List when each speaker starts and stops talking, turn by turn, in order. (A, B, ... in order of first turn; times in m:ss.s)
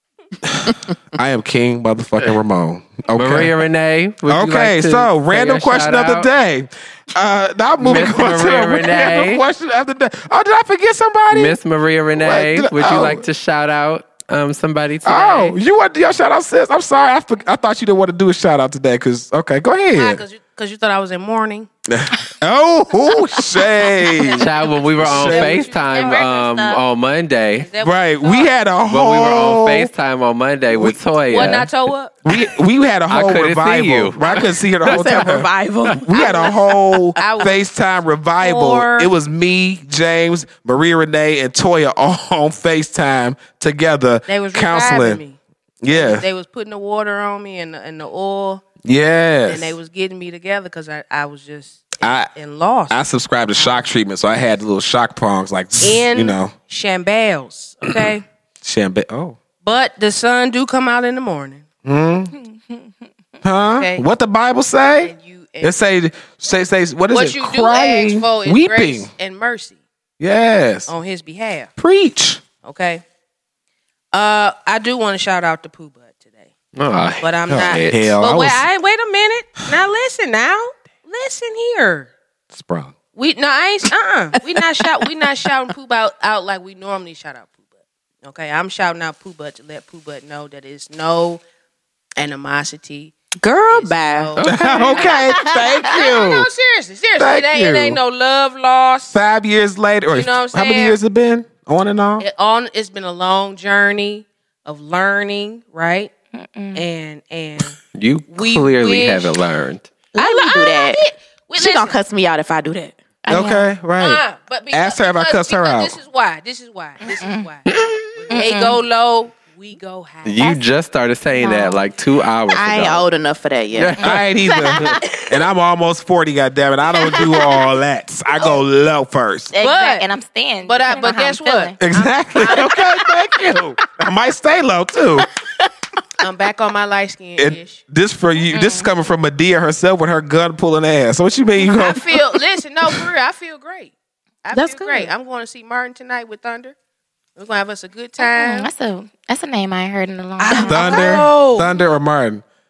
0:00.4-0:03.5 A
0:03.1-0:06.3 B
0:04.2-0:11.6 A
0:07.8-0:09.4 B
0:11.3-0:15.6 B
0:12.1-0:13.2 A
0:15.0-0:20.2 A
0:19.9-0:21.7 C
0:21.9-0:25.6 A
0:24.4-0:27.7 B
0:25.0-0:26.3 C
0:25.8-0:26.8 D
0:27.6-0:28.5 C
0:27.8-0:29.9 A
0:28.9-0:31.7 B
0:30.7-0:31.6 A
0:31.3-0:32.1 C
0:32.2-0:45.2 A
0:33.1-0:35.0 B
0:34.8-0:37.3 E
0:36.1-0:36.6 C
0:37.2-0:37.6 C
0:38.4-0:39.1 C
0:44.3-0:48.6 C
0:45.8-0:46.2 A
0:48.8-0:49.8 A
0:49.5-0:53.0 C
0:52.0-0:52.3 A
0:52.9-0:56.5 A
0:55.8-0:58.2 C
0:58.6-0:59.4 A
0:59.6-1:01.6 C
1:01.8-1:02.3 A
1:03.4-1:09.1 A
1:03.8-1:04.0 C
1:05.0-1:05.8 C
1:07.1-1:09.8 C
1:10.2-1:10.9 A
1:10.9-1:11.7 C
1:11.8-1:12.4 A
1:12.6-1:13.0 C
1:14.1-1:16.5 C
1:16.7-1:18.1 B
1:17.2-1:22.1 C
1:17.5-1:18.6 A
1:22.5-1:22.9 A
1:23.2-1:27.6 C
1:28.2-1:31.4 C
1:32.2-1:33.2 C
1:33.4-1:34.4 E
1:33.7-1:39.2 C
1:34.4-1:36.5 A
1:37.2-1:38.0 A
1:39.1-1:42.2 A
1:40.1-1:41.0 C
1:42.2-1:46.1 C
1:46.3-1:46.8 D
1:46.7-1:47.8 C
1:47.9-1:49.9 B
1:48.3-1:49.4 C
1:50.1-1:51.0 E
1:50.2-1:52.0 C
1:51.6-1:53.0 E
1:53.2-1:53.6 D
1:53.3-1:56.0 A
1:54.0-2:00.6 C
1:57.0-1:57.5 D
1:57.7-1:58.0 B
1:58.3-1:58.8 D
2:00.2-2:03.1 B
2:01.4-2:01.8 D
2:02.5-2:04.0 E
2:03.7-2:04.2 B
2:04.0-2:09.5 A
2:04.0-2:05.2 D
2:07.0-2:07.6 D
2:09.5-2:11.8 D
2:09.6-2:10.1 C
2:10.6-2:12.9 C
2:11.8-2:15.3 A
2:16.2-2:17.8 C
2:17.4-2:22.2 A
2:18.5-2:18.9 D
2:21.6-2:23.9 C
2:24.4-2:26.7 C
2:24.5-2:25.1 E
2:27.4-2:28.7 C
2:28.2-2:31.2 D
2:30.4-2:31.7 C
2:30.5-2:32.4 A